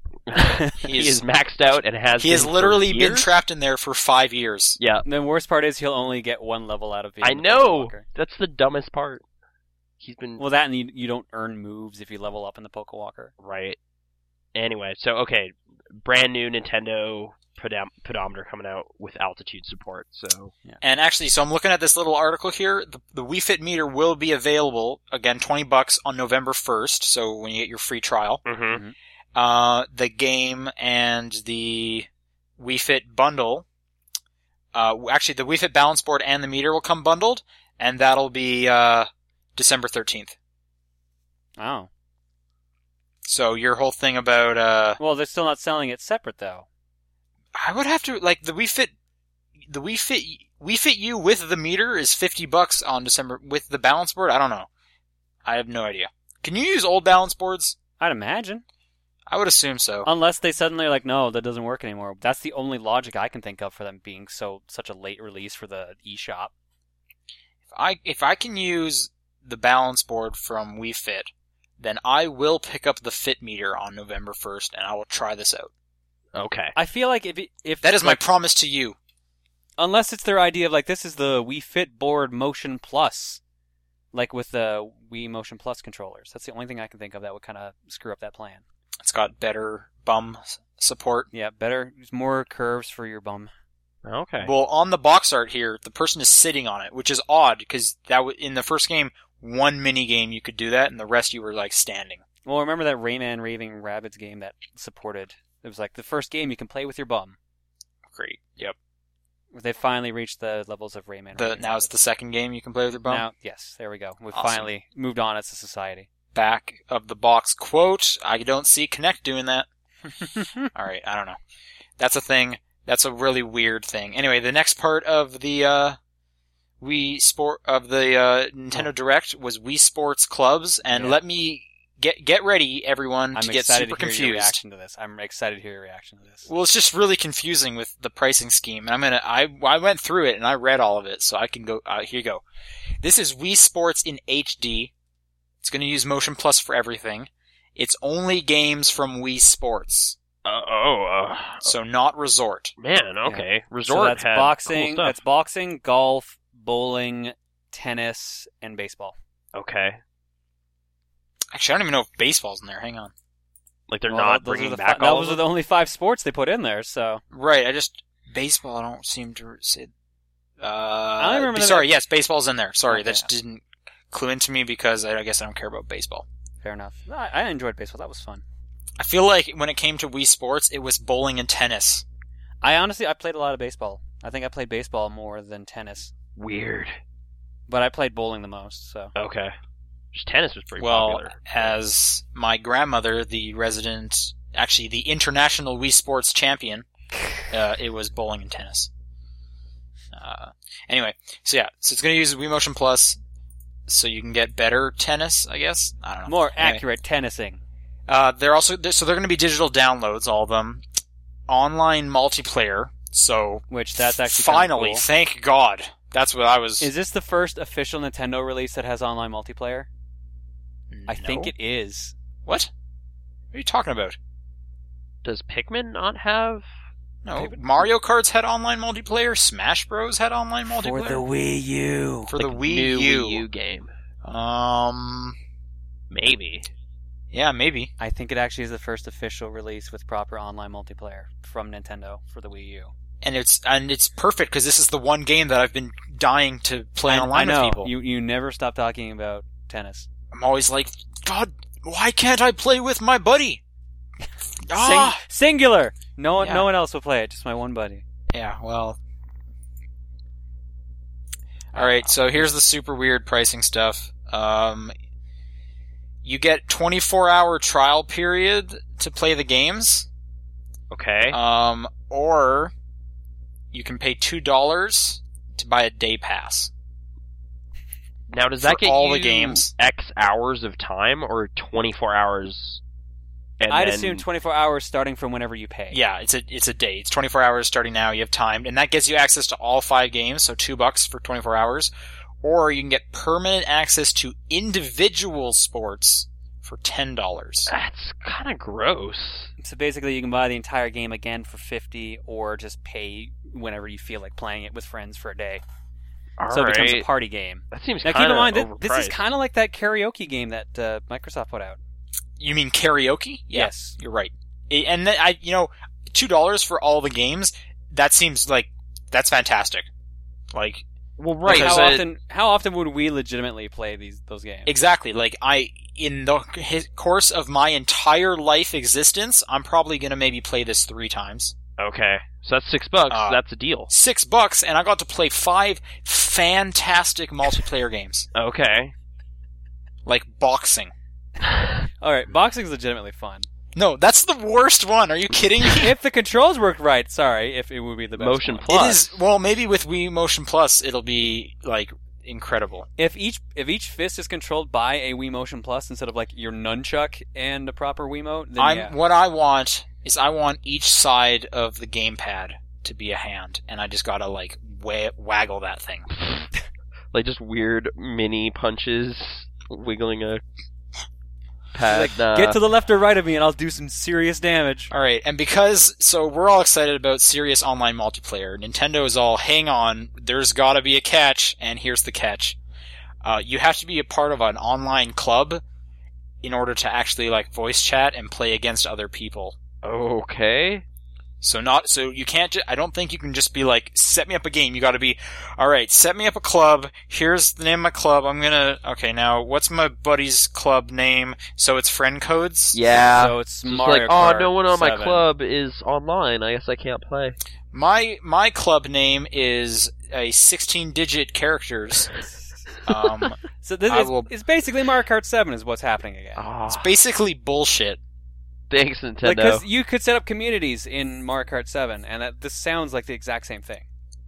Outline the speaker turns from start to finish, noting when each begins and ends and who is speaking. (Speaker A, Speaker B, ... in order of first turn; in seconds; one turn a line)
Speaker A: 0.3-3.3
Speaker B: 0.8-1.2
Speaker B: 2.2-4.8
Speaker A: 4.8-5.1
Speaker C: 5.0-8.1
Speaker A: 7.2-9.2
Speaker A: 10.0-10.4
Speaker C: 10.4-13.3
Speaker A: 13.4-13.8
Speaker A: 14.5-20.5
Speaker B: 20.8-28.4
Speaker A: 28.4-28.8
Speaker B: 29.4-33.7
Speaker B: 34.7-40.4
Speaker C: 41.6-41.9
Speaker B: 43.2-45.0
Speaker C: 45.0-46.7
Speaker B: 47.6-48.9
Speaker B: 49.7-54.7
Speaker B: 55.5-57.8
Speaker C: 58.0-58.6
Speaker B: 59.3-60.1
Speaker C: 60.0-66.5
Speaker B: 67.7-75.7
Speaker A: 76.3-76.8
Speaker C: 76.8-78.2
Speaker B: 77.8-79.0
Speaker C: 79.8-83.4
Speaker C: 84.1-88.6
Speaker B: 89.0-91.3
Speaker C: 91.3-93.5
Speaker A: 94.0-94.5
Speaker B: 94.4-102.2
Speaker C: 102.5-107.4
Speaker B: 108.1-108.8
Speaker C: 109.5-111.9
Speaker B: 111.3-113.3
Speaker C: 113.0-116.1
Speaker B: 114.3-114.7
Speaker B: 116.3-119.7
Speaker C: 120.2-120.7
Speaker B: 120.7-121.4
Speaker B: 122.0-126.0
Speaker B: 126.8-134.6
Speaker C: 130.9-131.2
Speaker C: 133.3-136.5
Speaker B: 136.5-142.4
Speaker B: 143.0-144.9
Speaker B: 145.6-150.2
Speaker A: 150.4-151.8
Speaker B: 151.6-152.7
Speaker A: 152.8-155.2
Speaker C: 153.3-159.2
Speaker A: 159.5-160.0
Speaker B: 161.5-163.1
Speaker A: 163.9-165.4
Speaker C: 164.1-167.2
Speaker B: 167.3-169.9
Speaker B: 170.6-176.3
Speaker C: 171.2-171.9
Speaker C: 172.9-173.3
Speaker C: 176.6-178.4
Speaker B: 179.0-182.1
Speaker C: 182.6-186.1
Speaker A: 186.4-187.0
Speaker C: 187.7-189.1
Speaker A: 189.2-189.6
Speaker A: 190.1-191.8
Speaker B: 190.8-196.9
Speaker B: 197.5-198.9
Speaker B: 200.1-203.2
Speaker B: 203.9-206.8
Speaker C: 206.3-207.6
Speaker B: 208.1-210.8
Speaker B: 211.5-216.9
Speaker C: 213.7-215.1
Speaker C: 216.8-219.9
Speaker B: 220.9-221.5
Speaker C: 221.1-222.2
Speaker B: 223.5-224.2
Speaker A: 225.2-226.7
Speaker B: 227.2-231.2
Speaker C: 227.3-227.9
Speaker C: 230.7-232.3
Speaker B: 232.3-233.4
Speaker A: 232.4-233.9
Speaker B: 234.2-235.4
Speaker A: 236.1-236.7
Speaker B: 237.3-237.9
Speaker C: 238.0-242.9
Speaker B: 243.2-247.9
Speaker C: 247.1-250.1
Speaker B: 250.3-253.6
Speaker B: 254.7-255.2
Speaker C: 254.7-258.0
Speaker B: 256.4-256.7
Speaker B: 258.3-259.0
Speaker B: 261.7-264.9
Speaker C: 261.7-262.5
Speaker B: 266.2-270.1
Speaker A: 270.9-271.4
Speaker B: 271.3-272.7
Speaker B: 273.7-276.7
Speaker A: 278.3-282.8
Speaker B: 278.6-279.7
Speaker A: 283.6-284.2
Speaker C: 283.7-286.0
Speaker B: 285.9-291.9
Speaker B: 292.4-297.7
Speaker A: 297.7-299.5
Speaker C: 299.6-305.6
Speaker A: 306.4-307.1
Speaker C: 306.5-311.8
Speaker A: 307.7-309.2
Speaker B: 312.4-319.9
Speaker C: 313.5-313.9
Speaker B: 320.5-320.8
Speaker A: 321.2-322.1
Speaker B: 321.5-322.0
Speaker C: 321.5-324.7
Speaker B: 324.7-331.5
Speaker A: 331.8-333.9
Speaker B: 333.1-338.3
Speaker A: 338.3-338.9
Speaker B: 340.1-340.9
Speaker C: 342.0-343.5
Speaker B: 343.8-345.9
Speaker C: 345.8-348.9
Speaker A: 348.2-349.1
Speaker B: 348.7-352.9
Speaker C: 353.0-358.9
Speaker B: 358.6-366.1
Speaker A: 366.2-366.5
Speaker A: 367.1-370.4
Speaker A: 371.7-372.6
Speaker C: 371.9-374.9
Speaker B: 374.9-382.6
Speaker B: 383.2-385.6
Speaker B: 386.4-389.6
Speaker A: 389.8-390.9
Speaker B: 391.4-402.8
Speaker A: 402.7-407.4
Speaker C: 403.1-405.2
Speaker B: 407.7-412.1
Speaker B: 412.9-413.4
Speaker A: 412.9-413.3
Speaker C: 413.6-416.5
Speaker B: 413.9-414.3
Speaker A: 416.4-416.9
Speaker B: 416.7-418.0
Speaker A: 418.7-419.6
Speaker C: 419.2-423.9